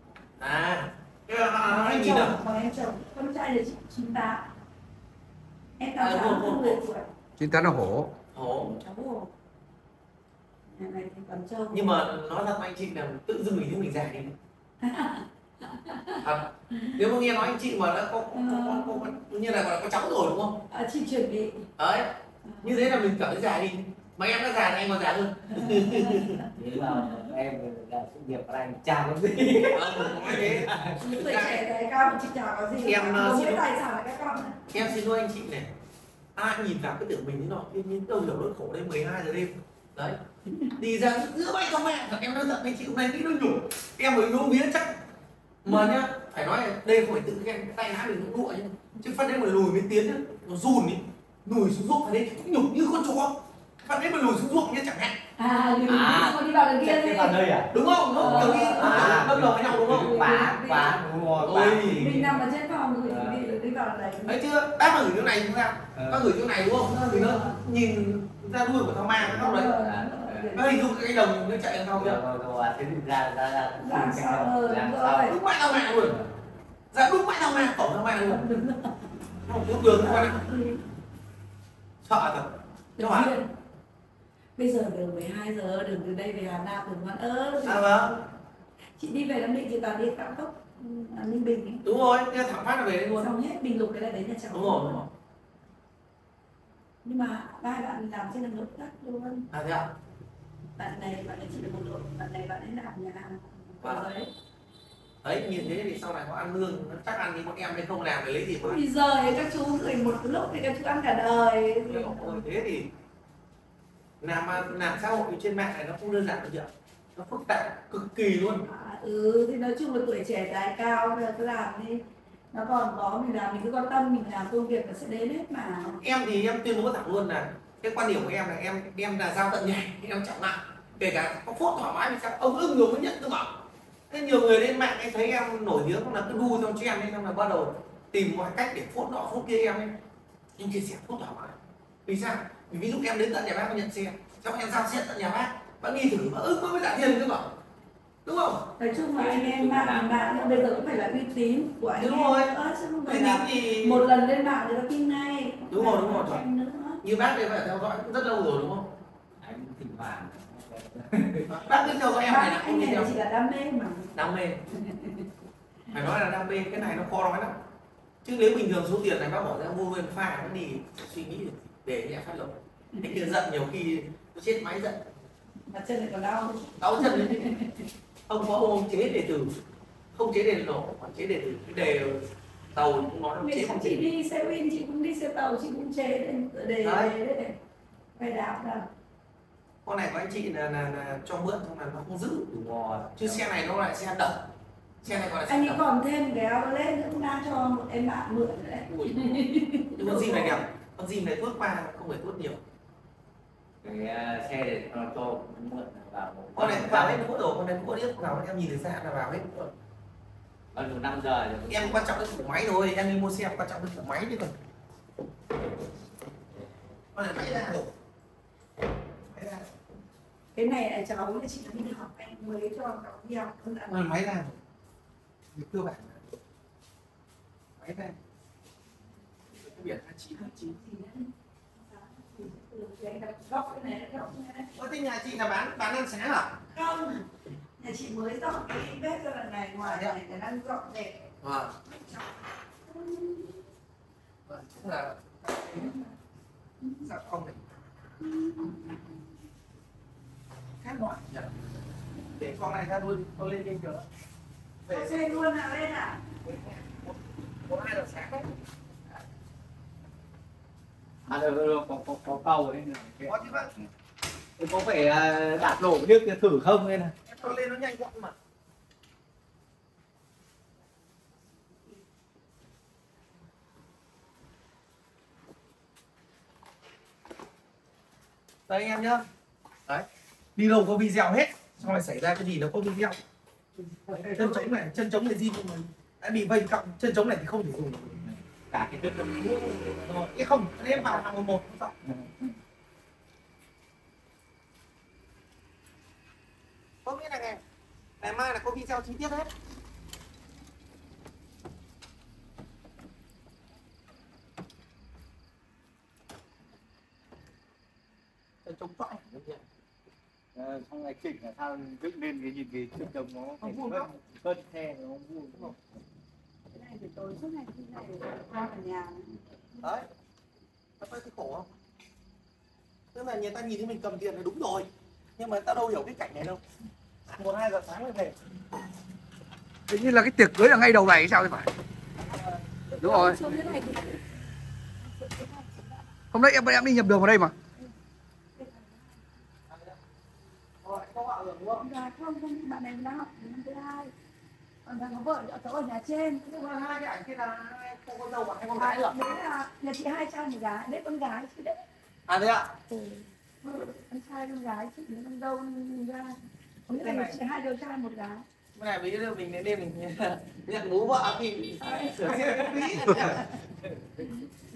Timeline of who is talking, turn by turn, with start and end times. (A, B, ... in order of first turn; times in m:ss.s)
0:00.4-0:02.4 A
0:01.6-0:04.5 B
0:05.8-0:07.1 B
0:06.0-0:06.8 A
0:07.4-0:08.1 C
0:08.3-0:08.8 A
0:08.6-0:09.3 B
0:10.7-0:12.0 B
0:11.7-0:14.4 A
0:14.8-0:17.0 B
0:16.2-0:20.6 A
0:18.3-0:19.1 B
0:20.7-0:21.7 B
0:21.8-0:26.5 A
0:22.5-0:22.9 B
0:25.6-0:26.4 B
0:26.5-0:31.0 D
0:29.7-0:31.6 A
0:31.0-0:34.6 B
0:32.8-0:33.6 A
0:34.7-0:35.7 A
0:36.4-0:40.2 A
0:40.5-0:40.7 B
0:40.8-0:45.0 A
0:45.6-0:55.2 A
0:55.4-0:57.4 B
0:55.9-1:02.4 D
0:57.7-1:00.2 A
0:58.1-1:01.0 B
1:01.4-1:02.2 A
1:01.8-1:04.4 B
1:03.0-1:03.5 D
1:04.2-1:09.8 A
1:05.9-1:06.3 D
1:06.8-1:07.6 B
1:09.2-1:10.6 D
1:09.3-1:10.7 B
1:10.5-1:12.2 A
1:11.9-1:16.3 D
1:13.8-1:15.4 B
1:15.3-1:16.2 A
1:16.9-1:18.6 A
1:18.3-1:19.0 B
1:19.5-1:20.4 A
1:19.9-1:20.8 B
1:22.0-1:23.4 A
1:23.0-1:23.5 B
1:24.6-1:27.8 B
1:27.6-1:28.2 A
1:29.0-1:31.8 B
1:31.8-1:33.3 A
1:33.2-1:35.0 B
1:34.5-1:35.1 A
1:37.0-1:39.5 B
1:39.5-1:39.9 A
1:40.8-1:44.3 B
1:43.8-1:44.1 A
1:45.2-1:48.8 A
1:48.6-1:52.4 B
1:51.9-1:52.9 A
1:54.2-1:58.7 A
1:58.7-2:06.0 B
2:06.0-2:13.6 A
2:14.1-2:20.0 A
2:20.6-2:27.5 A
2:28.2-2:28.7 A
2:28.8-2:37.0 B
2:29.1-2:30.9 D
2:32.0-2:32.5 A
2:33.1-2:34.0 A
2:35.7-2:36.4 A
2:37.0-2:38.9 A
2:39.4-2:41.5 D
2:41.5-2:43.2 A
2:41.9-2:44.1 B
2:44.1-2:44.6 A
2:44.7-2:45.3 B
2:45.9-2:47.6 A
2:48.2-2:55.1 A
2:55.7-2:57.9 B
2:56.8-2:57.6 A
2:58.3-2:59.6 A
3:00.1-3:04.0 A
3:03.4-3:07.6 B
3:06.8-3:07.1 A
3:08.2-3:08.9 B
3:09.8-3:12.5 A
3:12.5-3:13.5 D
3:13.2-3:14.5 A
3:15.0-3:15.8 A
3:15.5-3:20.6 B
3:18.9-3:19.1 A
3:20.0-3:22.6 A
3:23.8-3:27.2 D
3:26.6-3:29.7 A
3:30.7-3:32.1 D
3:31.7-3:34.6 A
3:37.1-3:37.9 A
3:39.3-3:39.7 A
3:40.6-3:44.1 B
3:43.9-3:44.6 A
3:45.5-3:46.2 A
3:47.8-3:48.2 A
3:49.6-3:49.8 B
3:49.6-3:50.8 A
3:50.4-3:54.7 B
3:54.7-3:56.6 A
3:56.7-4:01.3 B
3:59.8-4:00.2 A
4:01.4-4:01.8 A
4:01.9-4:02.3 B
4:02.8-4:03.6 B
4:04.5-4:06.0 A
4:07.0-4:07.6 A
4:08.2-4:09.2 B
4:10.8-4:11.7 A
4:12.2-4:14.1 A
4:14.8-4:15.4 A
4:14.9-4:16.2 B
4:16.4-4:18.6 A
4:21.3-4:23.9 D
4:23.3-4:23.7 A
4:24.6-4:27.1 D
4:27.2-4:28.4 A
4:38.7-4:39.2 A
4:39.9-4:43.2 A
4:43.9-4:44.7 D
4:44.1-4:48.2 A
4:48.2-4:50.0 D
4:49.9-4:51.9 A
4:50.9-4:51.2 D
4:52.1-4:52.5 D
4:57.0-4:57.6 A
4:58.2-4:59.5 A
5:08.6-5:09.6 A
5:10.6-5:16.0 D
5:13.6-5:14.2 A
5:16.7-5:19.4 B
5:19.8-5:20.1 A
5:21.0-5:21.7 A
5:23.1-5:26.6 A
5:27.3-5:28.4 A
5:29.9-5:31.7 C
5:32.3-5:33.8 A
5:33.0-5:33.4 C
5:33.0-5:34.2 B
5:35.0-5:36.1 B
5:36.3-5:37.6 C
5:38.6-5:39.2 B
5:39.7-5:40.0 A
5:40.8-5:41.9 A
5:41.8-5:44.1 B
5:44.8-5:46.5 B
5:46.4-5:49.2 A
5:48.8-5:51.8 B
5:52.3-5:52.7 A
5:52.9-5:58.4 B
5:56.9-5:57.4 A
5:58.8-6:03.4 A
6:01.8-6:03.6 B
6:02.4-6:04.0 D